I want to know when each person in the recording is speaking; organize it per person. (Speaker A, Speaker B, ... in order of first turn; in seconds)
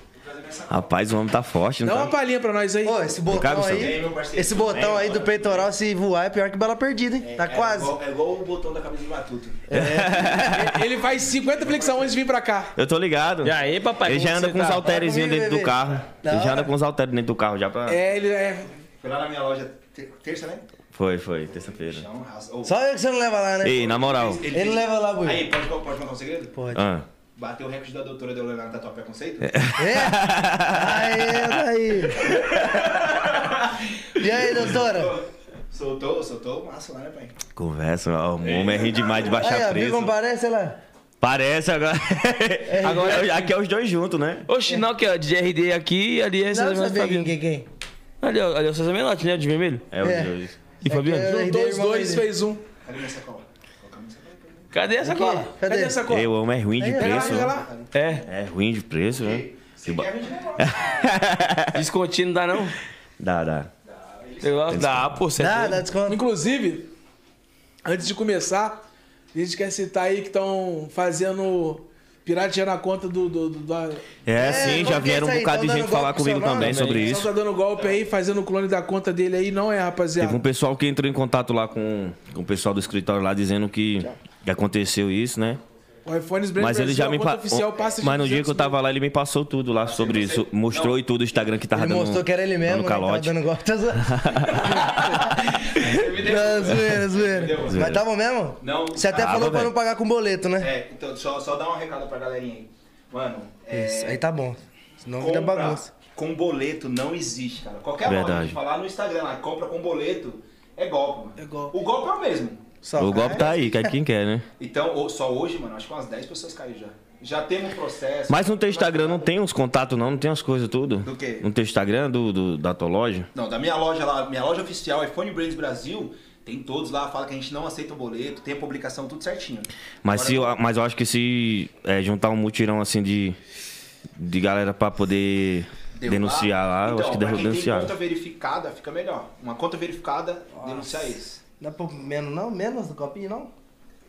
Speaker A: 0.2-0.8, 3.6-5.7, 7.2-9.7, 11.6-12.1, 19.0-20.6, 21.5-22.8, 23.9-26.5, 27.4-29.7, 32.3-37.4, 38.4-39.4, 52.8-54.7, 57.0-58.3, 59.2-61.1, 63.9-64.8, 89.8-91.0, 94.7-98.0, 98.6-99.4, 100.6-104.2, 105.2-112.7, 114.6-119.3, 121.0-121.5, 123.3-130.5, 136.0-141.4
Speaker B: 0.7-2.1, 3.3-4.0, 9.7-10.8, 12.8-18.0, 20.9-22.1, 23.6-24.5, 26.7-27.1, 29.5-31.6, 32.2-33.2, 37.6-40.1, 41.2-44.5, 49.9-50.6, 56.1-57.5, 58.3-60.1, 60.6-61.8, 63.2-63.7, 64.7-65.2, 74.3-77.3, 80.2-85.6, 86.6-93.3, 94.0-95.0, 97.7-98.0, 99.1-99.7, 108.0-108.6, 113.0-114.5, 118.3-123.3, 130.0-133.4, 134.2-137.9
Speaker C: 1.8-3.0, 10.3-12.8, 17.9-18.8, 51.1-52.6, 55.6-56.3, 57.0-57.7, 66.1-66.9, 67.8-74.8, 76.7-80.4, 86.0-88.8, 111.4-111.8
Speaker D: 2.9-8.0, 9.7-10.7, 14.8-16.7, 22.6-24.0, 24.5-25.5, 26.5-26.9, 29.8-32.3, 34.2-35.2, 39.4-40.8, 42.7-43.3, 46.5-47.7, 50.0-50.3, 50.9-52.2, 55.0-56.0, 56.8-57.5, 65.4-66.2, 74.4-76.9, 91.7-95.5, 96.1-100.7, 103.7-105.9, 112.8-113.9, 140.6-141.1, 141.6-143.5
Speaker E: 13.4-14.9, 42.8-43.5, 44.5-47.3, 48.2-49.9, 50.8-51.3, 54.7-55.5, 57.9-58.3, 61.7-62.8, 64.4-65.8, 76.6-77.2